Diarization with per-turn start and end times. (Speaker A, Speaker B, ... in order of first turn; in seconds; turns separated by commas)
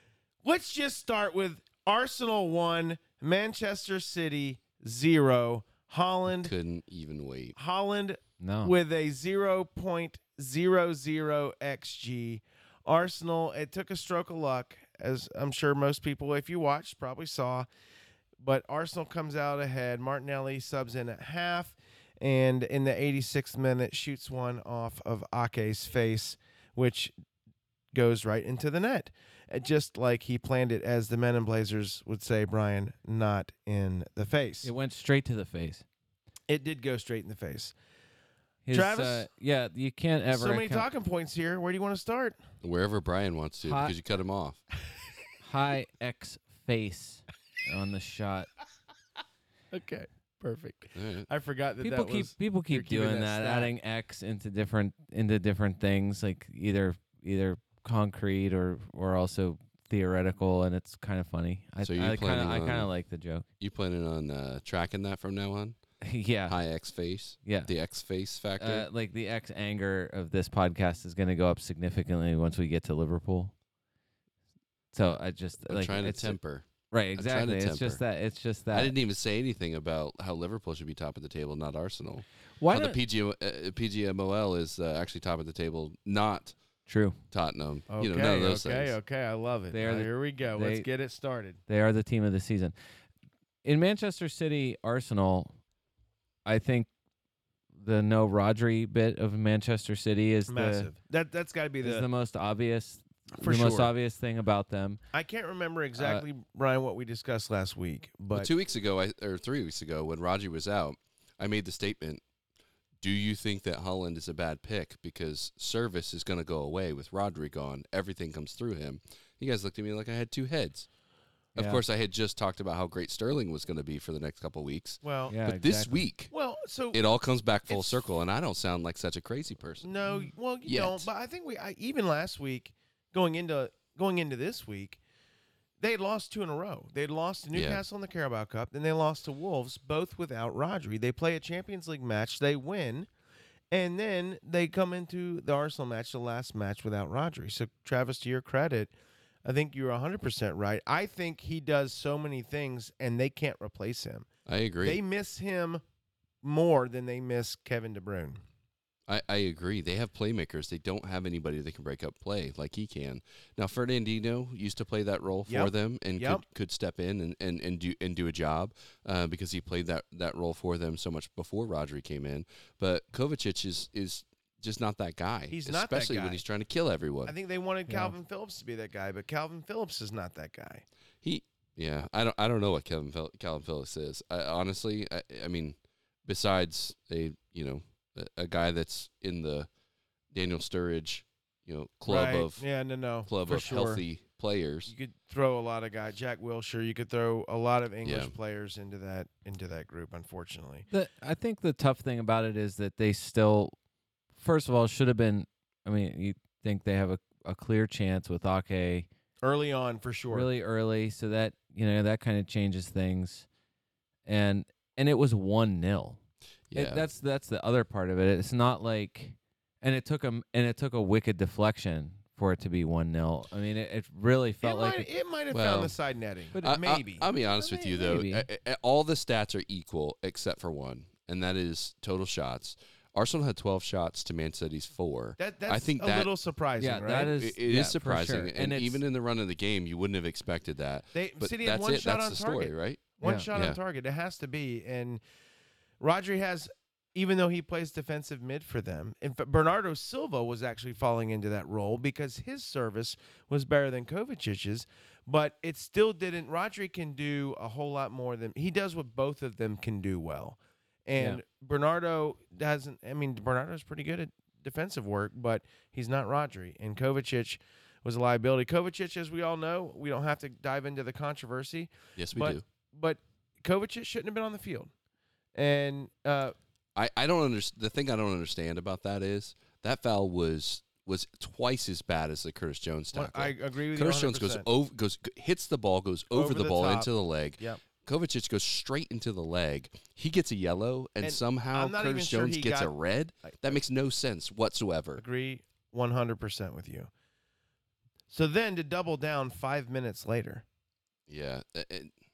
Speaker A: 0.4-6.5, Speaker B: 6.3-7.5, Speaker A: 7.6-17.7, Speaker C: 8.4-8.7, Speaker A: 18.4-27.1, Speaker A: 27.9-34.7, Speaker C: 34.6-35.9, Speaker A: 36.5-37.7, Speaker C: 38.6-40.9, Speaker A: 38.7-39.3, Speaker A: 40.3-42.4, Speaker B: 42.6-44.6, Speaker C: 43.6-44.0, Speaker C: 45.4-48.5, Speaker A: 49.7-53.7, Speaker B: 51.0-51.3, Speaker C: 51.8-63.5, Speaker B: 61.8-62.9, Speaker B: 63.6-65.8, Speaker C: 66.0-66.6, Speaker B: 66.5-68.9, Speaker C: 67.5-67.7, Speaker C: 68.6-73.5, Speaker C: 74.9-76.4, Speaker B: 75.7-78.0, Speaker C: 76.9-78.9, Speaker B: 78.7-86.5, Speaker C: 82.6-83.0, Speaker C: 86.9-87.2, Speaker B: 87.3-89.0, Speaker A: 87.9-91.6, Speaker C: 89.7-90.9, Speaker C: 91.7-92.7, Speaker C: 93.6-95.5, Speaker C: 96.5-96.9, Speaker C: 97.8-100.9, Speaker A: 100.5-102.1, Speaker C: 101.8-105.0, Speaker A: 103.4-103.9, Speaker A: 105.1-108.5, Speaker C: 106.0-106.2, Speaker B: 108.3-112.2, Speaker B: 113.0-120.9, Speaker C: 121.5-121.8, Speaker B: 121.6-126.3, Speaker A: 125.0-125.4, Speaker C: 125.3-126.0, Speaker A: 126.3-127.0, Speaker B: 126.9-129.9, Speaker A: 127.7-128.1, Speaker A: 129.8-135.0, Speaker B: 130.7-131.1, Speaker A: 135.8-143.1, Speaker B: 137.5-137.8, Speaker A: 143.7-148.9, Speaker A: 149.4-154.3, Speaker B: 154.5-155.0, Speaker A: 154.8-155.8, Speaker A: 156.4-158.4, Speaker B: 159.1-177.3, Speaker A: 165.5-166.4, Speaker A: 175.5-176.4, Speaker A: 177.3-180.8, Speaker C: 177.9-178.1, Speaker B: 181.2-189.7, Speaker B: 190.3-192.7, Speaker A: 192.1-194.0, Speaker B: 193.3-194.9, Speaker A: 194.9-200.9, Speaker B: 198.0-198.3, Speaker C: 200.9-203.8, Speaker C: 204.4-209.1, Speaker A: 209.4-210.5, Speaker C: 210.3-213.5, Speaker C: 214.3-216.2, Speaker B: 216.7-217.0, Speaker C: 216.7-225.1, Speaker A: 224.6-227.3, Speaker B: 225.5-225.9, Speaker B: 226.6-236.3, Speaker C: 227.6-228.5, Speaker A: 235.4-237.3, Speaker C: 236.8-239.0, Speaker B: 237.3-243.8, Speaker A: 241.1-245.2, Speaker C: 243.2-243.5, Speaker A: 246.0-274.9, Speaker C: 261.2-261.4, Speaker B: 272.2-272.6, Speaker A: 275.6-276.6, Speaker B: 277.0-295.2, Speaker A: 283.1-284.7, Speaker A: 286.3-287.8, Speaker A: 291.2-292.9, Speaker A: 293.4-293.8, Speaker A: 295.2-297.1, Speaker A: 298.3-300.6, Speaker B: 301.3-302.1